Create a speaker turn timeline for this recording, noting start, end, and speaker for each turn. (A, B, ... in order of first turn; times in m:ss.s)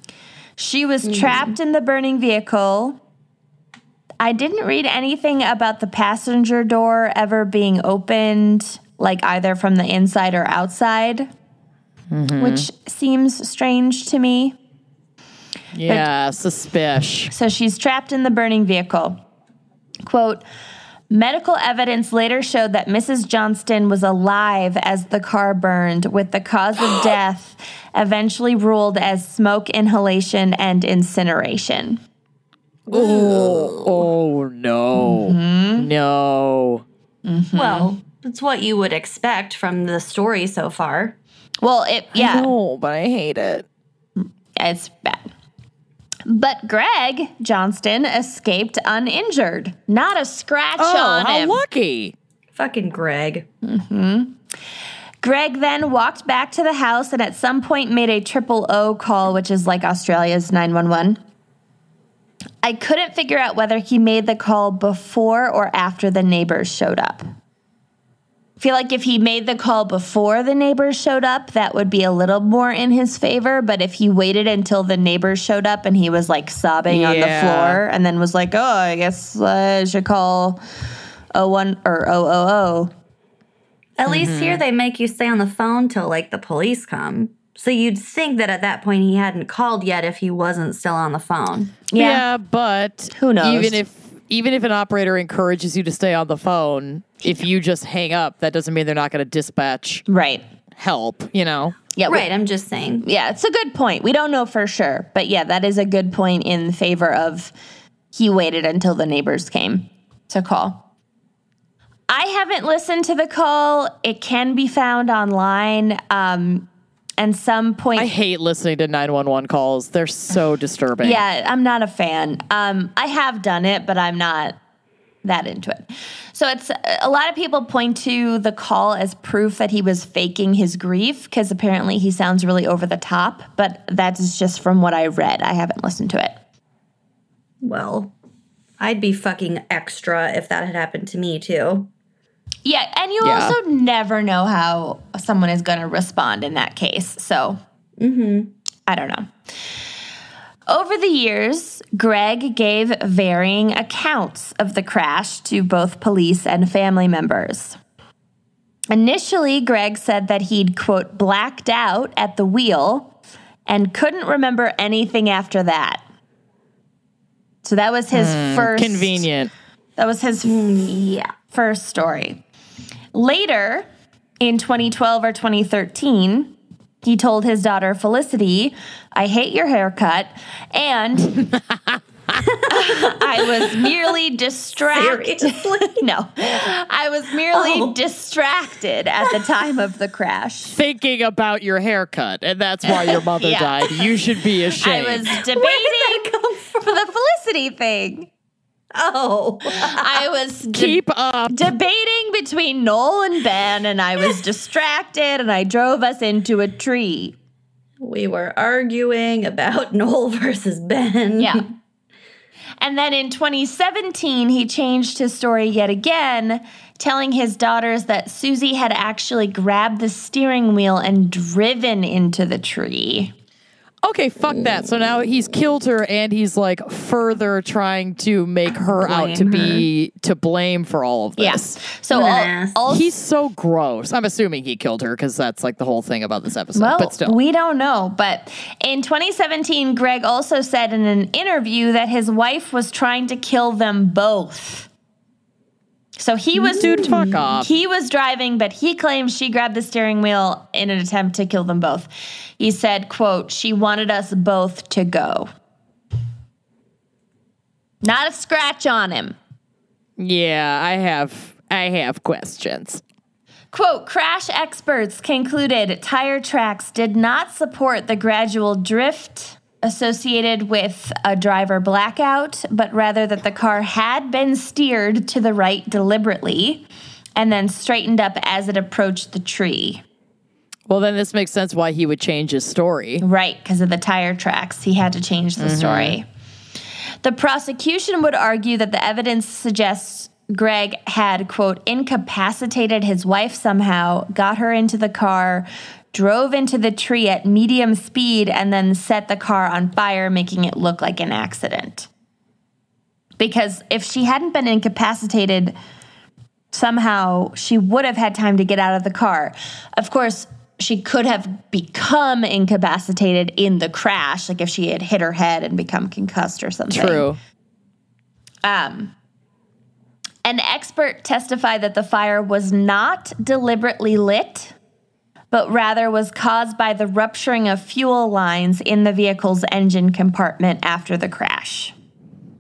0:00.6-0:03.0 A
0:01.1-0:01.5 B
0:04.2-0:11.3 A
0:12.1-0:12.6 C
0:12.4-0:14.6 A
0:15.7-0:17.3 C
0:17.3-0:19.2 A
0:20.0-0:20.4 A
0:21.1-0:32.0 A
0:32.9-0:34.1 B
0:32.9-0:36.8 C
0:35.0-0:35.9 A
0:37.2-0:37.9 A
0:37.5-0:41.2 B
0:41.6-0:42.5 A
0:42.1-0:43.6 C
0:44.2-0:45.3 A
0:46.2-0:51.6 A
0:50.8-0:52.1 C
0:52.6-0:53.5 B
0:53.6-0:54.4 A
0:55.2-1:01.2 A
1:02.6-1:07.3 A
1:08.6-1:20.6 A
1:16.9-1:17.8 C
1:21.3-1:22.9 A
1:24.0-1:31.8 B
1:24.0-1:24.6 C
1:31.9-1:32.2 A
1:32.0-1:40.0 C
1:33.1-1:33.8 A
1:40.1-1:40.4 A
1:40.8-1:41.8 C
1:42.0-1:42.2 A
1:42.1-1:43.0 B
1:43.0-1:47.5 A
1:48.1-1:50.8 A
1:52.1-1:56.7 A
1:57.2-1:58.1 A
1:57.9-2:01.2 C
2:01.0-2:04.6 A
2:05.2-2:16.4 A
2:17.6-2:18.1 B
2:18.8-2:21.9 B
2:22.6-2:27.6 A
2:23.2-2:23.6 C
2:28.0-2:28.5 B
2:28.9-2:29.3 A
2:30.7-2:37.8 A
2:38.9-2:43.1 A
2:43.6-2:46.0 A
2:47.6-2:49.3 A
2:48.1-2:49.5 C
2:50.0-2:52.4 A
2:50.4-2:51.3 B
2:53.1-2:53.9 A
2:54.4-3:01.5 A
3:01.7-3:02.0 C
3:02.5-3:02.8 B
3:02.7-3:10.8 A
3:04.9-3:06.0 B
3:07.5-3:08.0 B
3:10.7-3:15.3 C
3:12.8-3:14.2 A
3:14.8-3:18.3 A
3:15.5-3:16.8 B
3:18.9-3:20.2 B
3:19.7-3:27.3 A
3:20.6-3:21.7 C
3:28.0-3:31.6 B
3:31.4-3:31.6 A
3:32.8-3:43.3 A
3:44.0-3:51.8 C
3:49.0-3:49.8 B
3:51.4-3:53.1 A
3:52.1-3:52.8 B
3:52.9-3:57.4 C
3:56.7-4:04.9 A
4:06.2-4:15.5 A
4:06.7-4:07.7 C
4:06.7-4:07.4 B
4:18.0-4:19.4 A
4:20.2-4:23.0 C
4:23.7-4:40.0 A
4:40.9-4:43.2 C
4:43.2-4:46.2 A
4:45.6-4:46.2 C
4:47.2-5:02.1 A
5:03.4-5:05.8 A
5:06.7-5:17.3 A
5:16.9-5:17.4 C
5:18.6-5:19.1 A
5:20.4-5:24.7 A
5:25.5-5:31.9 A